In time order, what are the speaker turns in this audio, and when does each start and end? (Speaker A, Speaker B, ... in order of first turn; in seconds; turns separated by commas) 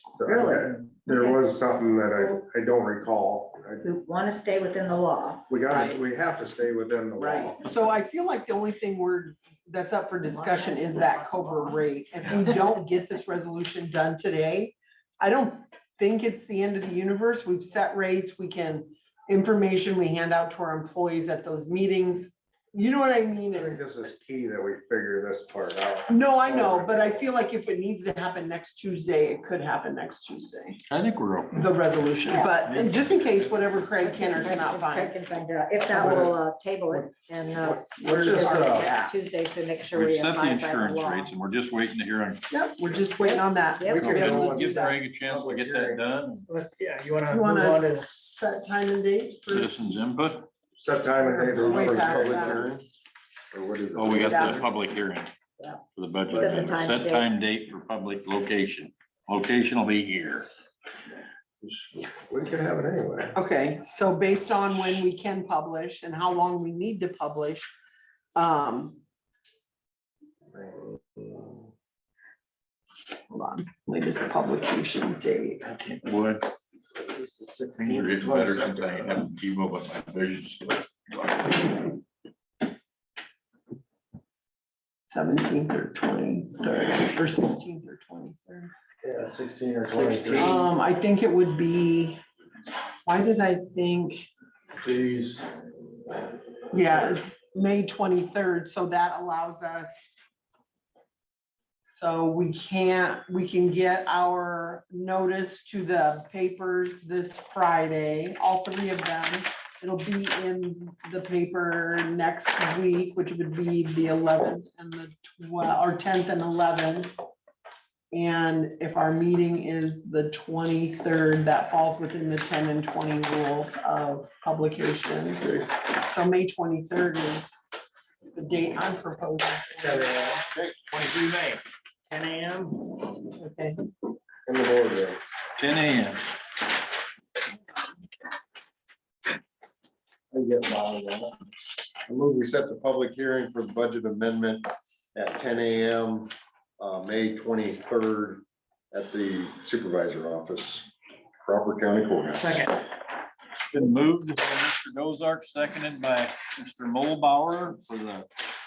Speaker A: 0.1-3.8, Speaker B: 0.2-1.4, Speaker B: 3.8-5.9, Speaker A: 5.5-7.6, Speaker C: 7.2-23.8, Speaker B: 10.2-12.5, Speaker A: 23.5-27.2, Speaker C: 26.1-30.8, Speaker D: 30.9-31.7, Speaker C: 31.5-35.1, Speaker B: 32.3-32.6, Speaker D: 32.7-33.0, Speaker B: 34.0-41.3, Speaker C: 35.9-36.3, Speaker A: 35.9-36.3, Speaker A: 37.6-38.9, Speaker C: 38.0-39.1, Speaker D: 39.9-42.4, Speaker C: 42.5-45.0, Speaker B: 43.2-44.1, Speaker A: 43.9-46.0, Speaker D: 43.9-46.5, Speaker E: 46.5-48.0, Speaker C: 47.3-49.7, Speaker D: 49.5-50.5, Speaker A: 50.8-52.6, Speaker C: 51.2-52.7, Speaker F: 51.4-52.8, Speaker F: 53.5-54.6, Speaker D: 53.9-55.3, Speaker C: 54.2-54.6, Speaker D: 55.9-60.5, Speaker B: 56.3-57.3, Speaker A: 61.6-63.3, Speaker C: 63.3-67.7, Speaker C: 68.3-69.0, Speaker A: 70.5-71.5, Speaker C: 73.3-75.6, Speaker D: 75.6-76.4, Speaker D: 77.8-81.7, Speaker C: 85.1-88.7, Speaker D: 89.5-90.7, Speaker E: 90.0-90.4, Speaker C: 90.4-92.2, Speaker C: 93.0-94.3, Speaker D: 94.8-95.4, Speaker C: 96.7-100.1, Speaker C: 101.8-117.1, Speaker C: 118.1-127.7, Speaker C: 128.3-130.4, Speaker E: 129.8-130.3, Speaker F: 130.5-130.8, Speaker E: 131.1-131.6, Speaker E: 132.1-132.8, Speaker C: 133.3-133.8, Speaker A: 134.4-135.2, Speaker D: 135.6-136.2, Speaker A: 140.3-141.3, Speaker F: 142.1-150.9, Speaker F: 151.4-152.8, Speaker D: 153.7-158.3